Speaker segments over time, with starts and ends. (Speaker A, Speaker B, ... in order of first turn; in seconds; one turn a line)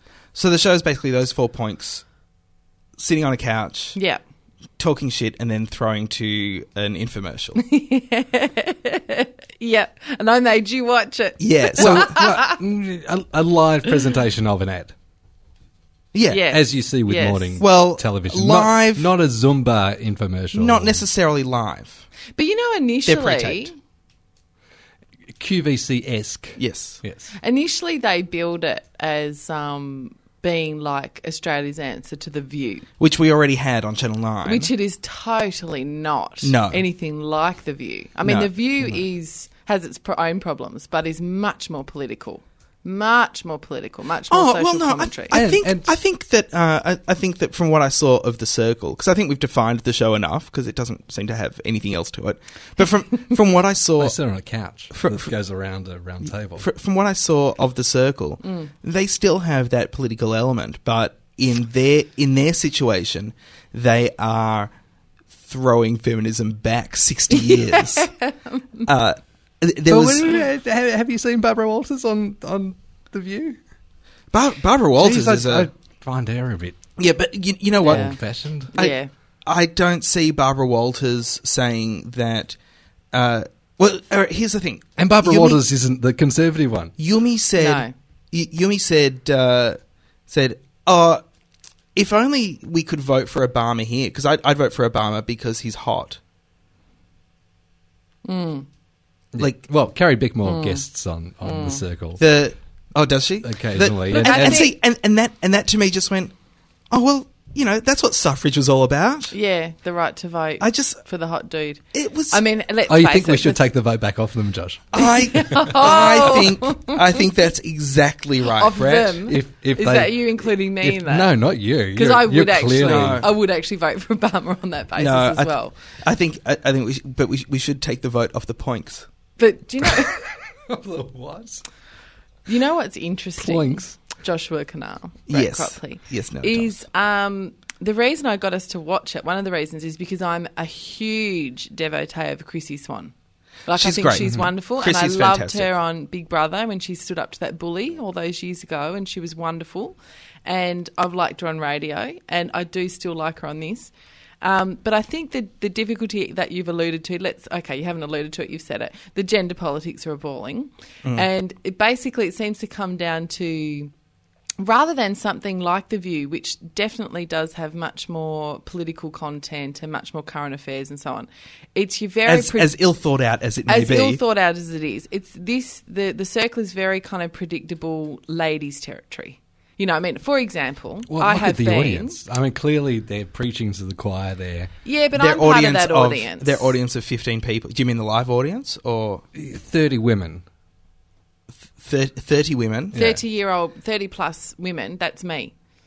Speaker A: 0.3-2.0
Speaker A: 3.0-4.0
Speaker B: 3.9-4.2
Speaker A: 4.8-7.6
Speaker B: 7.6-12.6
Speaker A: 11.4-12.2
Speaker C: 11.8-14.9
Speaker A: 16.1-16.4
Speaker B: 16.3-17.6
Speaker C: 16.5-21.0
Speaker A: 17.6-19.1
Speaker A: 20.5-22.1
Speaker B: 22.4-23.7
Speaker A: 23.0-23.7
Speaker C: 25.4-27.3
Speaker A: 26.6-27.0
Speaker B: 27.4-32.9
Speaker A: 33.0-34.7
Speaker B: 34.4-45.4
Speaker A: 36.4-36.8
Speaker A: 38.2-38.5
Speaker A: 44.3-54.2
Speaker C: 45.3-45.9
Speaker C: 54.0-56.6
Speaker A: 54.9-55.3
Speaker A: 56.6-64.7
Speaker A: 65.4-68.1
Speaker B: 67.3-68.9
Speaker A: 68.8-70.4
Speaker C: 69.9-73.6
Speaker A: 74.3-75.7
Speaker C: 75.0-76.8
Speaker A: 77.0-78.2
Speaker C: 77.8-78.7
Speaker B: 77.8-78.2
Speaker B: 78.7-79.1
Speaker A: 78.7-82.6
Speaker A: 83.1-85.6
Speaker C: 85.0-86.9
Speaker A: 87.0-91.2
Speaker B: 87.6-87.9
Speaker A: 91.9-96.2
Speaker B: 98.2-98.7
Speaker C: 99.3-102.2
Speaker B: 100.4-100.8
Speaker B: 101.4-101.8
Speaker A: 102.2-106.3
Speaker C: 103.4-104.7
Speaker B: 104.1-104.7
Speaker A: 106.9-109.3
Speaker B: 109.3-113.6
Speaker A: 110.6-111.0
Speaker A: 111.9-112.4
Speaker C: 112.9-115.0
Speaker A: 114.9-119.2
Speaker B: 115.0-117.1
Speaker B: 118.5-121.3
Speaker C: 119.2-123.2
Speaker B: 121.9-125.7
Speaker A: 122.8-123.3
Speaker A: 125.0-129.1
Speaker B: 129.4-130.2
Speaker C: 130.7-131.6
Speaker B: 132.5-143.1
Speaker C: 133.4-134.0
Speaker A: 135.3-136.7
Speaker B: 143.7-163.9
Speaker A: 143.7-145.7
Speaker B: 164.6-172.7
Speaker A: 172.2-174.2
Speaker B: 173.7-182.2
Speaker C: 181.1-184.7
Speaker B: 184.8-186.7
Speaker A: 185.1-189.2
Speaker C: 189.3-190.4
Speaker A: 191.7-193.0
Speaker C: 192.9-193.2
Speaker B: 192.9-195.5